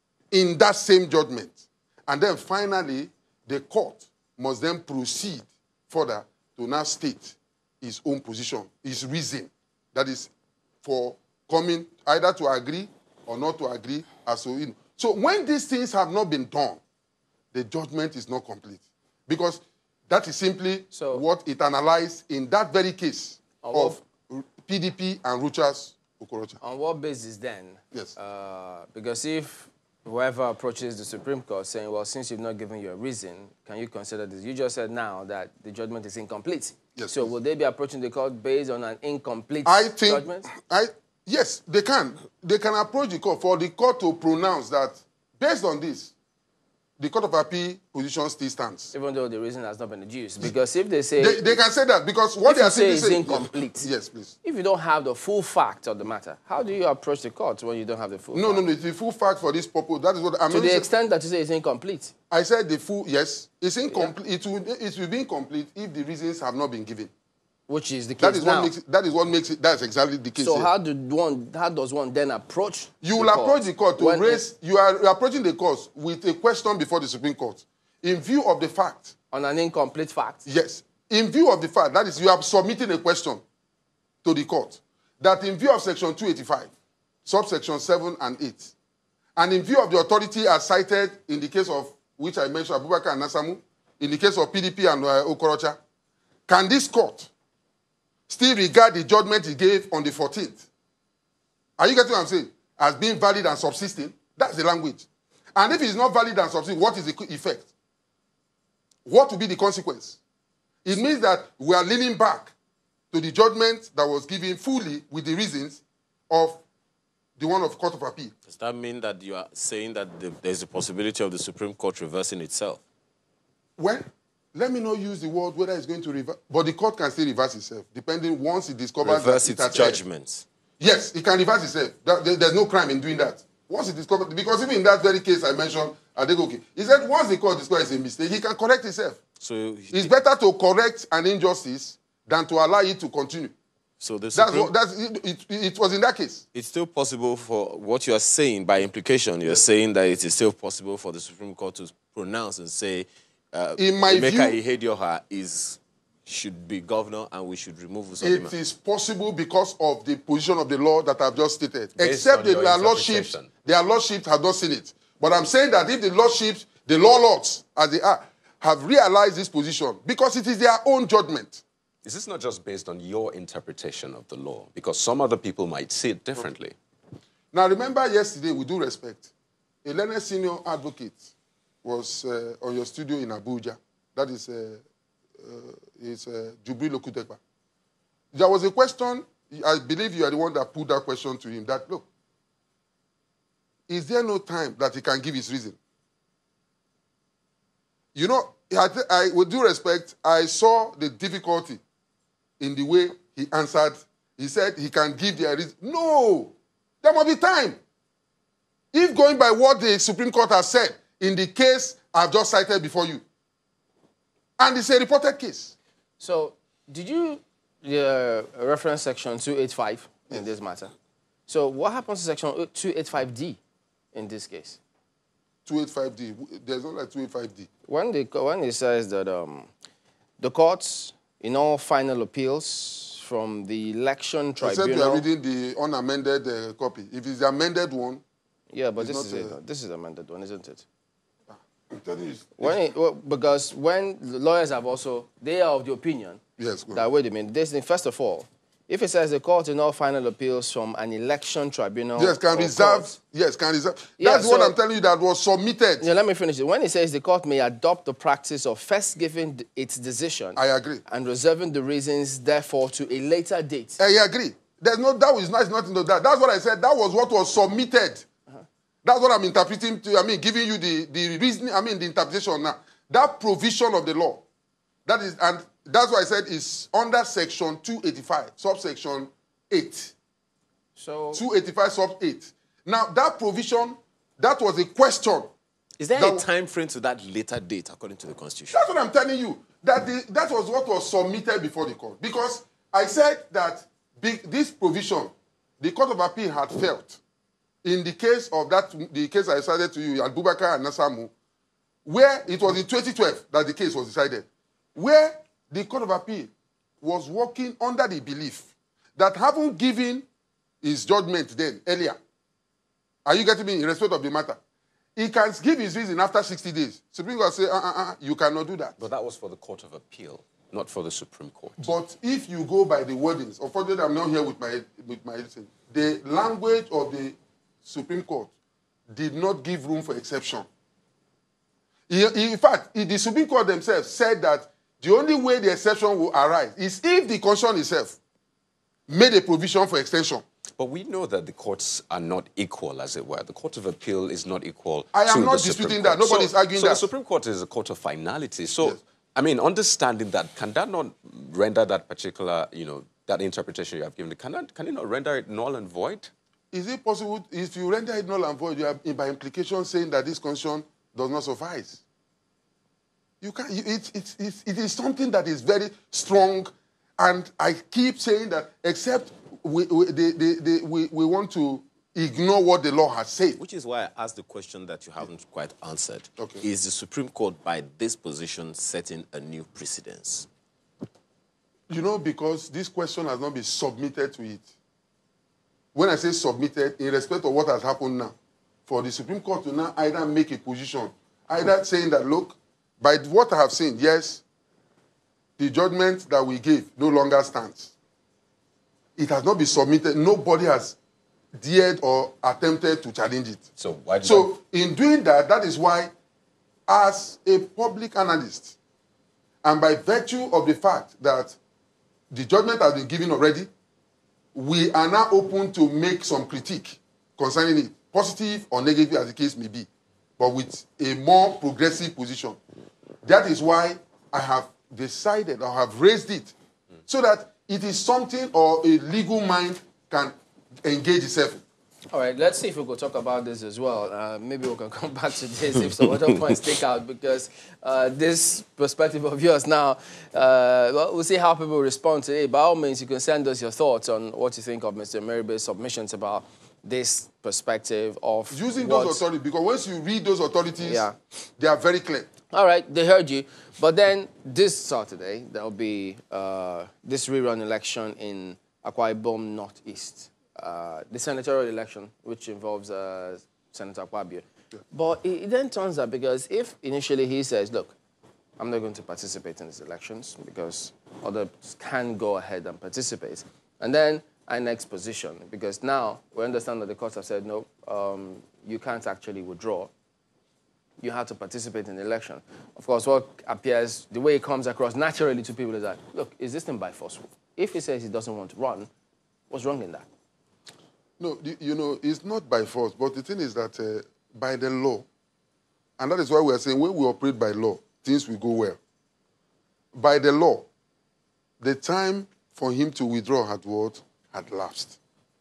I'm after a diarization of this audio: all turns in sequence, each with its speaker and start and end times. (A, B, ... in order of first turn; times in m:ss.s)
0:00.3-0:10.3 A
0:10.8-0:16.8 A
0:17.5-0:26.6 A
0:20.9-0:21.2 B
0:23.6-0:24.0 B
0:26.6-0:40.5 B
0:37.0-0:37.3 A
0:39.6-0:46.1 A
0:47.0-0:48.9 A
0:48.9-0:51.6 B
0:51.2-0:54.3 A
0:52.4-0:53.9 B
0:54.4-0:58.6 B
0:58.3-1:00.9 A
1:00.5-1:02.1 B
1:02.3-1:07.1 A
1:07.7-1:08.7 B
1:08.2-1:10.7 A
1:10.4-1:14.4 B
1:13.0-1:19.1 A
1:19.3-1:20.4 B
1:20.4-1:23.4 A
1:24.2-1:26.7 A
1:27.2-1:28.7 A
1:29.4-1:35.8 A
1:36.5-1:37.3 A
1:38.3-1:40.6 A
1:41.8-1:47.7 A
1:49.0-1:50.2 A
1:50.8-1:52.5 A
1:53.1-1:56.6 A
1:57.4-1:58.3 A
1:58.4-2:02.8 C
2:03.8-2:10.0 A
2:09.0-2:10.4 C
2:10.8-2:19.2 A
2:19.4-2:20.1 C
2:19.9-2:23.5 A
2:24.0-2:24.7 C
2:24.3-2:26.4 A
2:26.5-2:38.5 C
2:33.8-2:34.6 A
2:38.2-2:51.6 A
2:42.0-2:43.5 D
2:52.0-2:56.7 D
2:57.5-2:59.3 A
2:59.8-3:01.3 A
3:01.8-3:04.8 A
3:05.4-3:07.4 A
3:08.3-3:12.0 A
3:13.9-3:15.8 A
3:18.1-3:21.8 A
3:22.6-3:27.8 A
3:28.9-3:33.2 A
3:34.6-3:35.7 A
3:36.2-3:40.9 B
3:41.5-3:43.6 B
3:44.1-3:44.8 B
3:45.6-3:47.7 A
3:47.9-3:49.7 B
3:50.4-3:55.2 B
3:54.6-3:58.2 A
3:58.7-4:00.8 B
3:59.0-3:59.5 A
4:01.5-4:02.8 A
4:02.6-4:06.4 B
4:06.6-4:07.0 A
4:06.9-4:13.1 B
4:12.2-4:16.0 A
4:14.2-4:14.7 B
4:16.0-4:24.0 B
4:20.6-4:21.0 A
4:24.0-4:28.2 A
4:29.0-4:34.4 A
4:35.0-4:40.1 A
4:41.0-4:41.4 B
4:41.3-4:45.5 A
4:46.0-4:48.8 C
4:46.2-4:46.5 A
4:48.7-4:57.2 A
4:57.8-5:01.3 A
5:02.0-5:10.2 A
5:10.8-5:12.2 A
5:13.2-5:14.6 A
5:15.2-5:19.0 A
5:19.0-5:21.9 D
5:21.8-5:28.5 A
5:29.1-5:30.7 A
5:32.1-5:38.2 A
5:39.1-5:40.4 A
5:40.8-5:56.3 D
5:45.1-5:47.1 A
5:56.7-6:02.0 A
6:03.4-6:13.6 A
6:13.6-6:20.5 C
6:16.4-6:16.6 A
6:21.9-6:24.6 A
6:25.9-6:28.3 A
6:28.9-6:34.4 A
6:35.6-6:37.9 A
6:39.2-6:41.0 A
6:41.5-6:43.6 A
6:43.8-6:44.5 D
6:44.2-6:46.1 A
6:46.9-6:48.7 A
6:49.6-6:51.6 A
6:52.3-6:53.7 A
6:54.5-6:59.9 A
7:00.4-7:02.6 A
7:03.2-7:06.5 A
7:07.1-7:11.6 A
7:12.1-7:29.2 B
7:28.5-7:31.0 A
7:30.8-7:31.2 B
7:31.6-7:32.3 A
7:32.5-7:47.9 B
7:48.6-7:59.9 B
8:01.0-8:08.9 B
8:09.5-8:10.0 B
8:11.2-8:15.0 A
8:16.0-8:18.8 A
8:19.9-8:20.7 A
8:21.6-8:25.0 A